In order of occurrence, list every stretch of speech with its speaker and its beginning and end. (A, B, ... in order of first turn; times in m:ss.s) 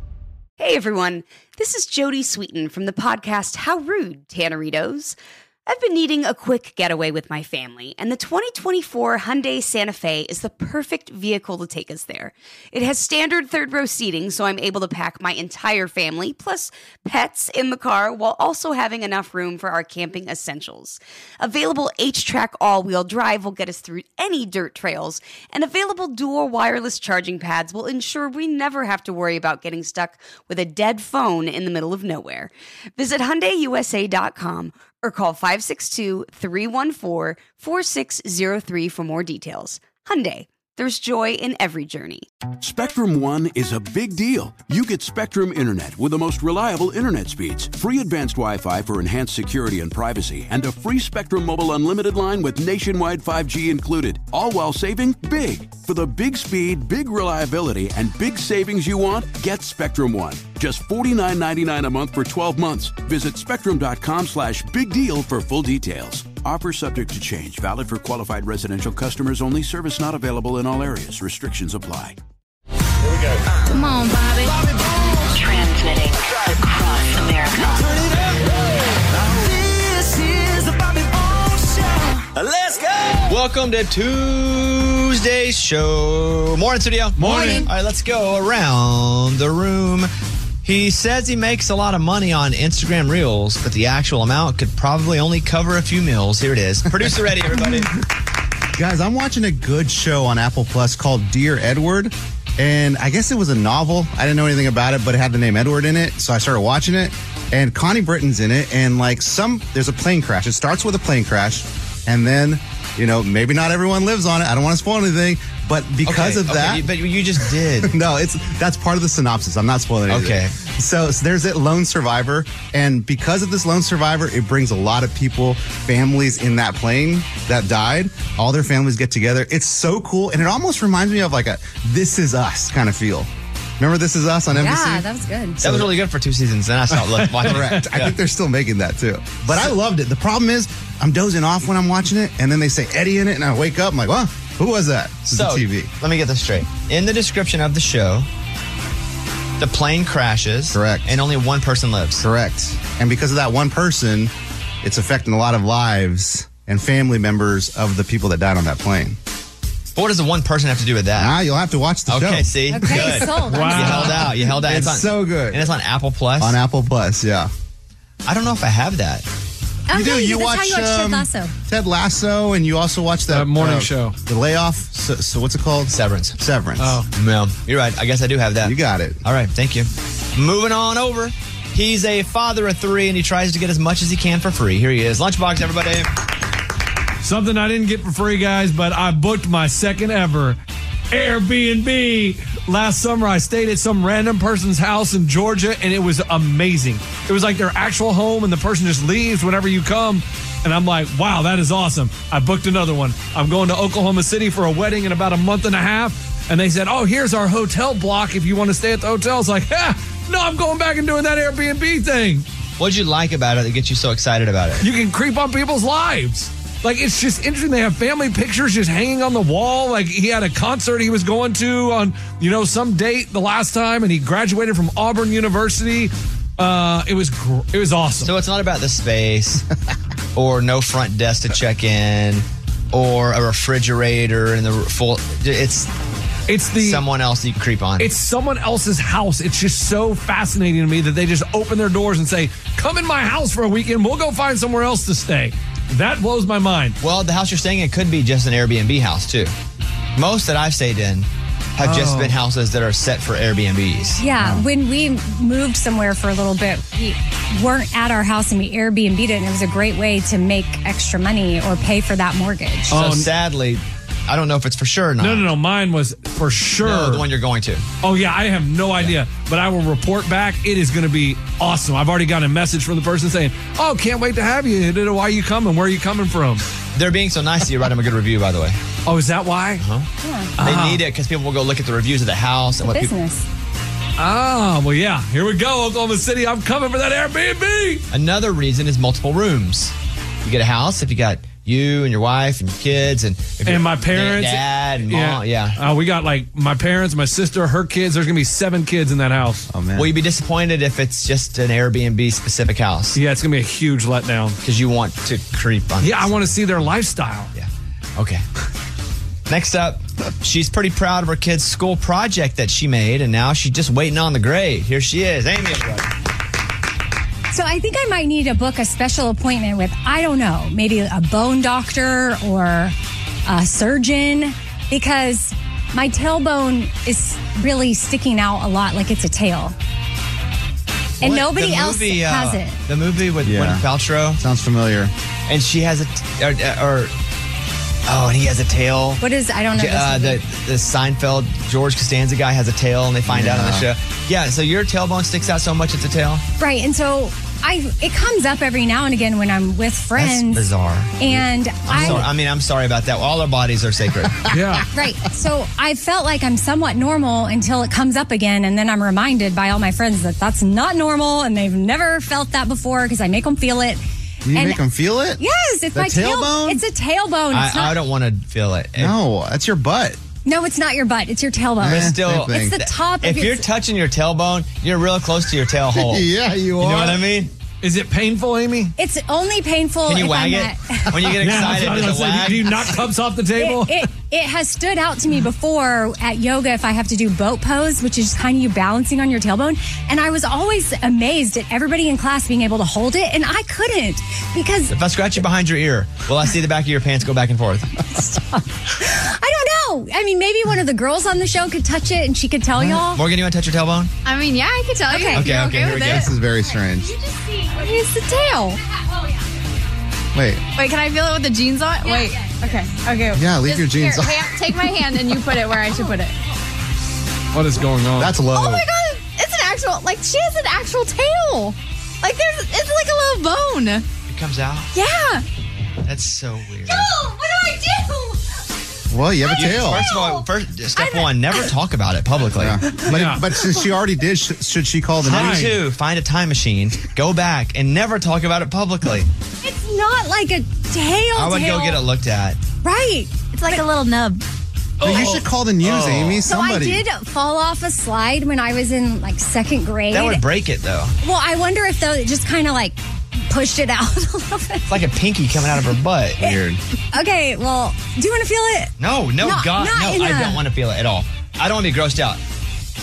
0:00.6-0:42.2 A
0:42.6-1:12.2 B
1:13.7-1:14.5 C
1:14.4-1:15.3 D
1:15.3-1:18.2 E
1:17.8-1:22.3 D
1:23.2-1:30.1 F
1:27.2-1:27.7 G
1:30.6-1:37.9 F
1:37.4-1:37.6 H
1:38.7-1:56.9 H
1:56.0-1:58.0 F
1:57.4-2:15.1 H
2:00.1-2:00.5 F
2:14.5-2:15.6 I
2:15.6-2:15.9 H
2:15.6-2:18.1 F
2:16.9-2:17.8 G
2:17.4-2:25.9 H
2:25.2-2:28.3 F
2:29.6-2:32.2 F
2:30.7-2:31.0 H
2:32.2-2:34.3 H
2:34.8-2:39.2 H
2:39.9-2:41.3 F
2:41.2-2:43.3 H
2:42.1-2:46.6 F
2:42.7-2:44.1 I
2:43.5-2:44.3 G
2:44.0-2:45.7 H
2:46.4-2:47.5 H
2:48.2-2:49.2 F
2:49.9-2:51.5 I
2:49.9-2:57.0 H
2:53.3-2:54.2 G
2:55.9-2:56.4 F
2:56.8-2:57.1 G
2:57.1-3:06.1 F
2:58.6-2:59.2 H
3:07.2-3:10.6 G
3:11.1-3:32.4 G
3:32.8-3:34.9 F
3:34.8-3:48.3 G
3:48.2-3:49.6 F
3:50.3-3:55.9 F
3:56.5-3:57.0 G
3:56.8-3:58.1 F
3:58.0-4:07.0 G
4:07.0-4:09.5 F
4:10.2-4:14.2 F
4:11.8-4:12.4 G
4:14.2-4:23.0 I
4:22.9-4:23.3 G
4:22.9-4:25.5 F
4:25.2-4:27.3 G
4:26.8-4:27.8 F
4:28.0-4:36.6 G
4:37.0-4:38.8 F
4:39.1-4:39.8 G
4:39.8-4:40.1 F
4:40.2-4:40.5 I
4:40.6-4:41.0 G
4:40.6-4:43.1 F
4:42.9-4:43.4 I
4:44.2-4:48.0 G
4:48.1-4:55.8 F
4:53.6-4:59.7 G
4:59.7-5:00.1 H
5:00.0-5:03.2 F
5:03.1-5:04.6 G
5:04.6-5:06.5 F
5:06.0-5:07.5 G
5:07.5-5:08.4 F
5:09.5-5:16.1 F
5:17.5-5:22.9 I
5:23.4-5:29.7 I
5:31.2-5:34.4 F
5:31.2-5:32.8 I
5:33.4-5:33.8 H
5:34.4-5:35.1 H
5:35.5-5:37.1 F
5:38.0-5:39.2 F
5:39.2-5:40.4 I
5:39.7-5:46.4 F
5:43.3-5:43.9 H
5:46.6-5:50.7 I
5:50.1-5:54.4 F
5:51.2-5:52.2 I
5:54.5-5:54.8 G
5:54.9-6:04.0 I
6:04.4-6:05.4 H
6:04.5-6:04.8 I
6:05.4-6:08.0 I
6:05.9-6:06.8 H
6:07.5-6:09.2 F
6:09.0-6:10.2 H
6:10.4-6:13.6 I
6:11.8-6:16.2 F
6:11.8-6:12.7 H
6:16.0-6:17.2 H
6:16.8-6:17.5 F
6:17.8-6:18.9 G
6:19.0-6:21.7 I
6:20.0-6:22.9 F
6:21.4-6:24.1 G
6:23.6-6:34.9 I
6:34.9-6:38.0 F
6:38.1-6:43.2 I
6:42.9-6:44.1 F
6:44.2-6:46.3 C
6:45.1-6:45.5 I
6:45.3-6:46.3 F
6:46.1-6:47.1 H
6:47.4-6:48.7 C
6:47.4-6:48.8 I
6:50.3-6:50.6 H
6:50.7-6:56.3 C
6:53.3-6:54.5 H
6:57.5-6:58.4 G
6:58.2-6:58.8 H
6:58.5-7:04.0 C
7:04.3-7:04.9 F
7:04.9-7:05.4 C
7:06.0-7:07.1 F
7:06.9-7:08.4 I
7:09.1-7:10.0 H
7:09.5-7:11.4 I
7:09.5-7:12.8 F
7:12.5-7:15.6 H
7:13.0-7:13.4 G
7:15.2-7:19.3 F
7:15.2-7:15.8 G
7:19.6-7:22.0 I
7:21.3-7:22.6 F
7:22.8-7:23.8 I
7:23.5-7:24.4 C
7:25.0-7:26.4 G
7:25.0-7:27.0 H
7:26.4-7:30.4 I
7:30.1-7:31.1 F
7:31.2-7:34.9 I
7:34.9-7:36.5 F
7:36.4-7:36.8 H
7:37.1-7:40.6 I
7:39.0-7:42.4 F